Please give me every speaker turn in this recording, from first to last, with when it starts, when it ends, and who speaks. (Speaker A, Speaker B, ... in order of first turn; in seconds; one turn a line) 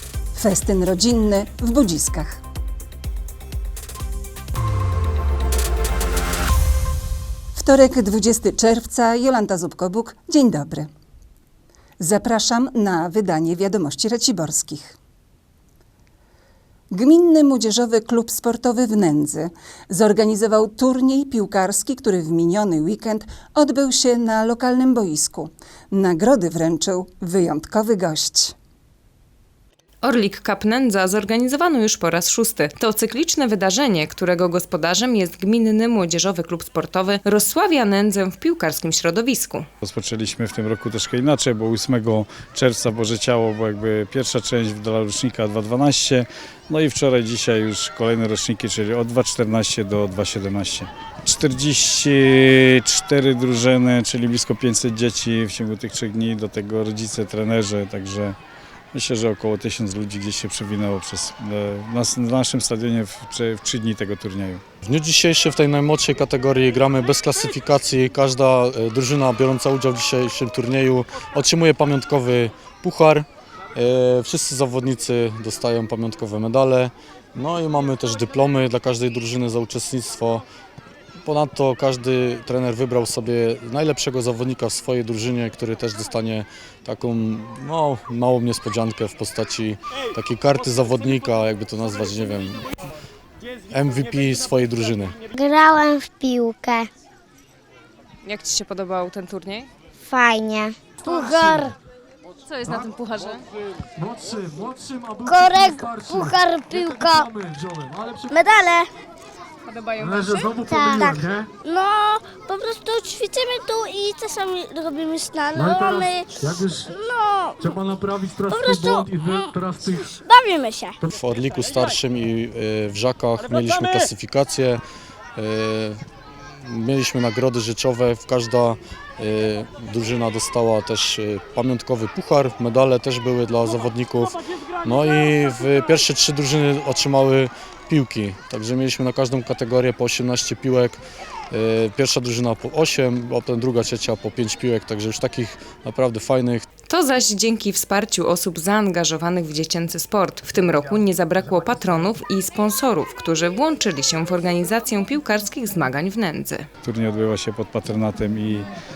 Speaker A: 0.3-2.4
Speaker A: 7.5-10.9
Speaker A: 12.0-14.9
Speaker A: 16.9-28.6
Speaker B: 30.0-39.7
Speaker C: 39.8-58.4
Speaker C: 58.9-64.6
Speaker D: 64.8-80.4
Speaker D: 81.2-92.6
Speaker D: 93.7-95.2
Speaker E: 95.3-96.9
Speaker B: 98.3-99.7
Speaker E: 100.0-101.7
Speaker F: 104.0-105.0
Speaker E: 105.3-107.3
Speaker F: 107.2-108.0
Speaker E: 108.3-108.9
Speaker E: 110.5-116.3
Speaker E: 117.1-117.6
Speaker F: 117.8-119.7
Speaker E: 118.5-119.5
Speaker E: 120.2-121.0
Speaker D: 121.2-124.8
Speaker D: 125.4-126.0
Speaker D: 126.6-141.0
Speaker D: 141.5-146.7
Speaker B: 146.9-156.7
Speaker C: 156.8-158.7